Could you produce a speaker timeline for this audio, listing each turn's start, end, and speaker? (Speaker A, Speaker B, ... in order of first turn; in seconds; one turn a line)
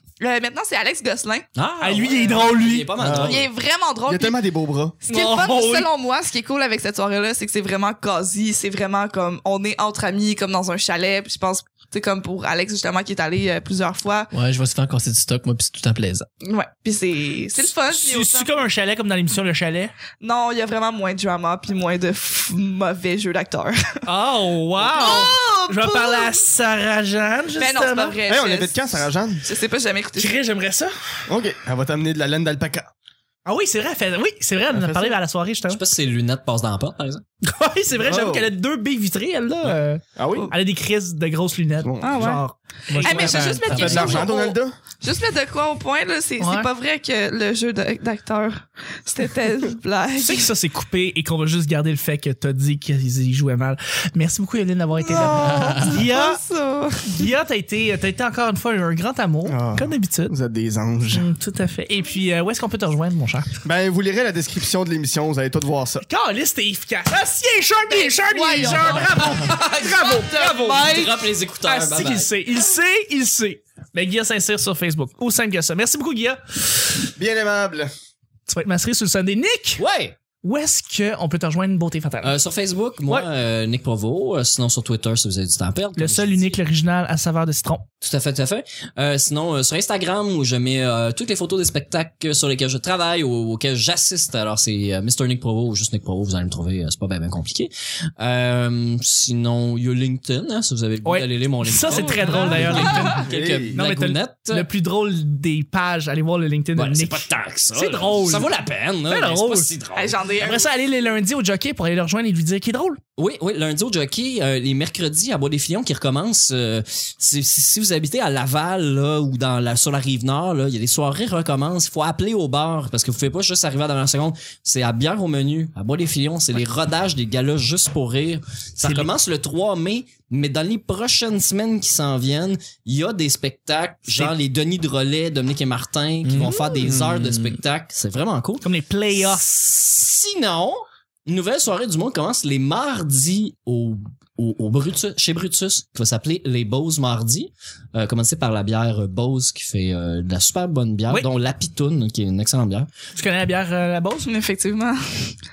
Speaker A: 0.2-1.5
Speaker B: 1.6-3.5
Speaker C: 1.8-2.9
Speaker D: 3.0-3.5
Speaker A: 3.2-4.4
Speaker D: 4.1-5.0
Speaker A: 5.0-14.3
Speaker C: 5.1-5.9
Speaker E: 14.3-16.3
Speaker A: 16.4-18.5
Speaker C: 17.6-19.9
Speaker A: 20.2-24.0
Speaker C: 24.1-28.2
Speaker A: 24.8-26.5
Speaker A: 27.6-30.4
Speaker D: 28.3-29.4
Speaker C: 30.2-30.9
Speaker D: 31.3-32.9
Speaker C: 33.5-35.8
Speaker D: 34.7-35.2
Speaker B: 35.7-37.2
Speaker C: 37.4-44.2
Speaker D: 38.0-38.5
Speaker D: 40.1-40.5
Speaker D: 41.8-42.4
Speaker A: 42.0-42.4
Speaker E: 42.9-44.2
Speaker A: 43.0-50.5
Speaker D: 43.7-44.7
Speaker C: 46.4-46.7
Speaker C: 50.2-56.4
Speaker A: 55.0-57.2
Speaker E: 55.4-55.9
Speaker C: 57.0-60.3
Speaker D: 59.5-61.3
Speaker C: 61.1-63.5
Speaker D: 63.6-66.0
Speaker C: 66.0-70.9
Speaker A: 67.9-71.3
Speaker B: 70.8-72.3
Speaker C: 71.7-76.9
Speaker D: 77.2-77.9
Speaker C: 78.5-79.8
Speaker B: 79.8-80.1
Speaker C: 80.4-82.3
Speaker B: 82.2-86.5
Speaker C: 86.0-87.8
Speaker B: 88.0-104.7
Speaker C: 101.0-108.5
Speaker A: 101.9-103.2
Speaker D: 103.1-103.8
Speaker B: 106.7-110.2
Speaker C: 109.1-109.7
Speaker A: 109.9-110.7
Speaker C: 110.4-113.0
Speaker B: 113.2-152.9
Speaker C: 128.8-129.1
Speaker E: 136.2-137.6
Speaker C: 138.6-139.4
Speaker C: 153.2-154.3
Speaker A: 154.2-155.3